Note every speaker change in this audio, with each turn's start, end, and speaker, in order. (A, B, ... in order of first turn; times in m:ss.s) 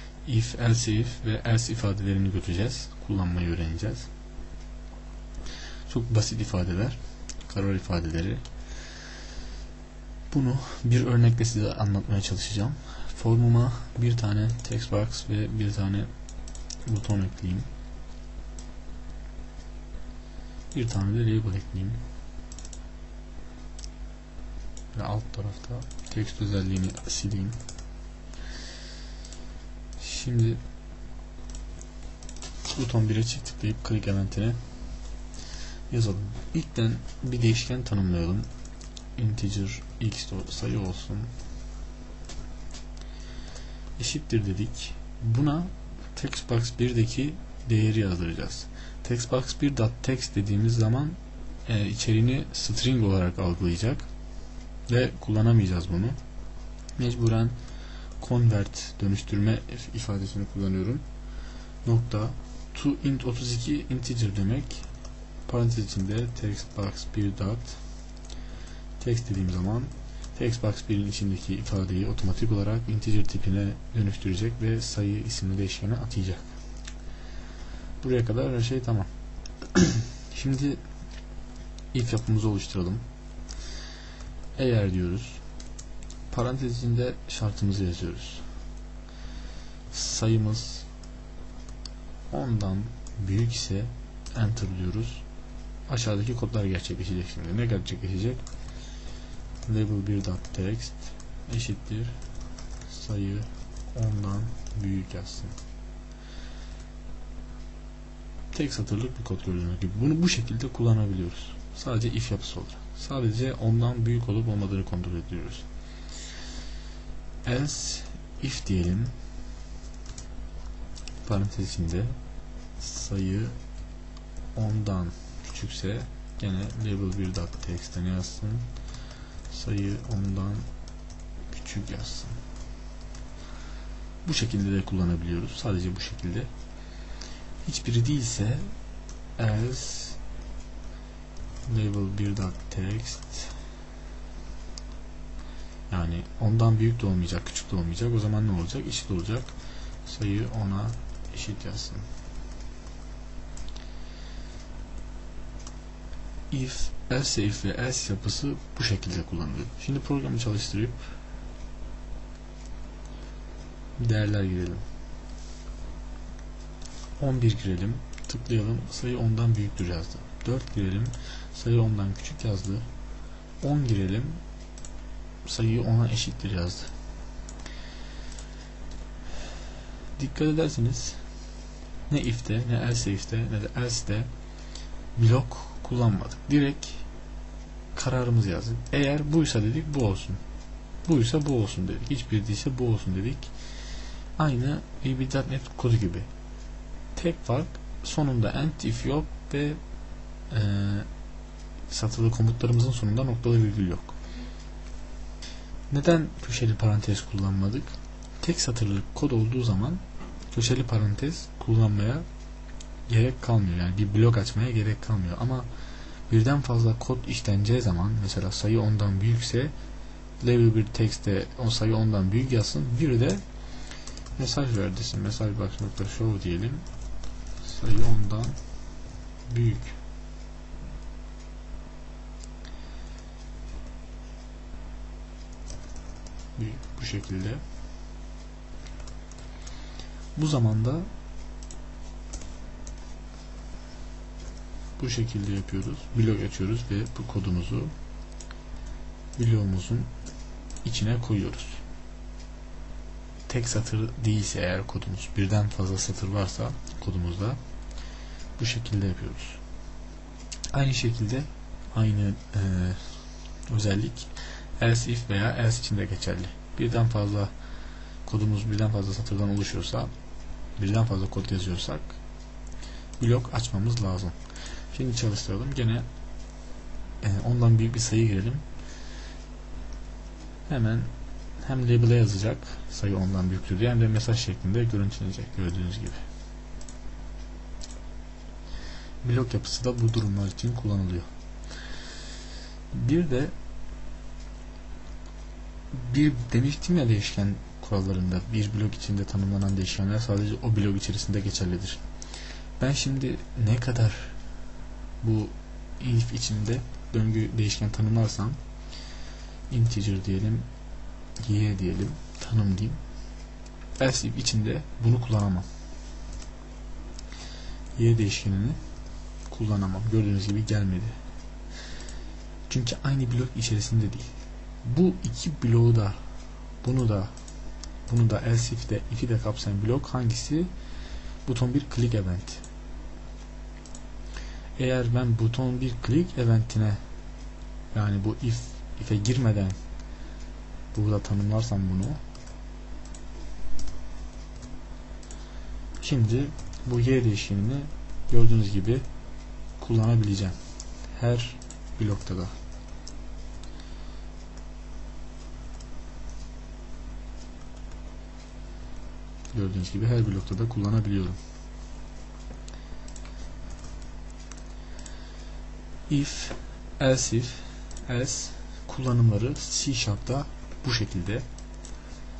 0:00.2-0:04.1 A
0:05.9-0:08.4 A
0:10.3-0:16.1 A
0:16.8-0:17.7 A
0:20.7-0:22.0 A
0:24.9-0:27.6 A
0:30.0-0:30.6 A
0:32.7-0:34.6 A
0:35.9-0:38.5 A
0:39.2-0:41.3 A
0:44.0-0:54.1 A
0:54.9-0:56.2 A
0:57.0-0:57.6 A
0:58.2-1:01.0 A
1:01.8-1:04.8 A
1:05.5-1:07.8 A
1:09.0-1:16.5 A
1:18.0-1:19.1 A
1:19.7-1:20.8 A
1:21.9-1:23.0 A
1:24.6-1:25.4 A
1:26.3-1:28.4 A
1:29.9-1:30.8 A
1:32.3-1:35.2 A
1:35.9-1:38.4 A
1:39.6-1:42.1 A
1:42.9-1:45.6 A
1:48.5-1:55.6 A
1:57.4-1:59.1 A
2:01.2-2:02.2 A
2:02.8-2:03.5 A
2:04.5-2:08.7 A
2:09.5-2:10.7 A
2:11.5-2:12.4 A
2:14.2-2:16.5 A
2:17.6-2:18.7 A
2:19.4-2:20.2 A
2:21.7-2:23.5 A
2:25.9-2:29.5 A
2:30.0-2:32.0 A
2:36.5-2:41.1 A
2:44.0-2:44.8 A
2:47.2-2:52.8 A
2:53.6-2:54.4 A
2:55.4-2:56.9 A
3:00.2-3:01.2 A
3:02.1-3:04.3 A
3:05.1-3:07.0 A
3:07.9-3:10.4 A
3:11.0-3:13.5 A
3:14.4-3:16.3 A
3:17.1-3:19.8 A
3:20.5-3:21.1 A
3:21.9-3:24.1 A
3:25.9-3:32.2 A
3:33.1-3:35.7 A
3:36.3-3:39.7 A
3:40.4-3:43.4 A
3:44.4-3:46.8 A
3:47.6-3:48.6 A
3:49.5-3:49.9 A
3:56.6-3:57.6 A
4:00.3-4:01.1 A
4:05.0-4:07.9 A
4:09.4-4:10.1 A
4:10.8-4:11.8 A
4:13.5-4:17.6 A
4:18.6-4:19.6 A
4:20.7-4:23.1 A
4:23.7-4:27.5 A
4:28.2-4:30.1 A
4:30.8-4:32.2 A
4:33.2-4:34.4 A
4:34.9-4:36.0 A
4:37.2-4:38.6 A
4:40.7-4:46.2 A
4:49.2-4:51.3 A
4:52.9-4:53.5 A
4:55.9-5:02.0 A
5:02.8-5:04.4 A
5:05.2-5:08.6 A
5:09.7-5:10.7 A
5:11.4-5:13.0 A
5:14.0-5:15.7 A
5:18.0-5:18.8 A
5:19.5-5:21.2 A
5:22.7-5:24.3 A
5:24.8-5:26.2 A
5:26.8-5:27.3 A
5:28.1-5:30.7 A
5:31.4-5:32.6 A
5:34.8-5:37.0 A
5:37.9-5:39.8 A
5:40.9-5:42.2 A
5:46.0-5:49.0 A
5:49.8-5:50.6 A
5:51.1-5:52.5 A
5:59.5-6:01.4 A
6:06.1-6:11.4 A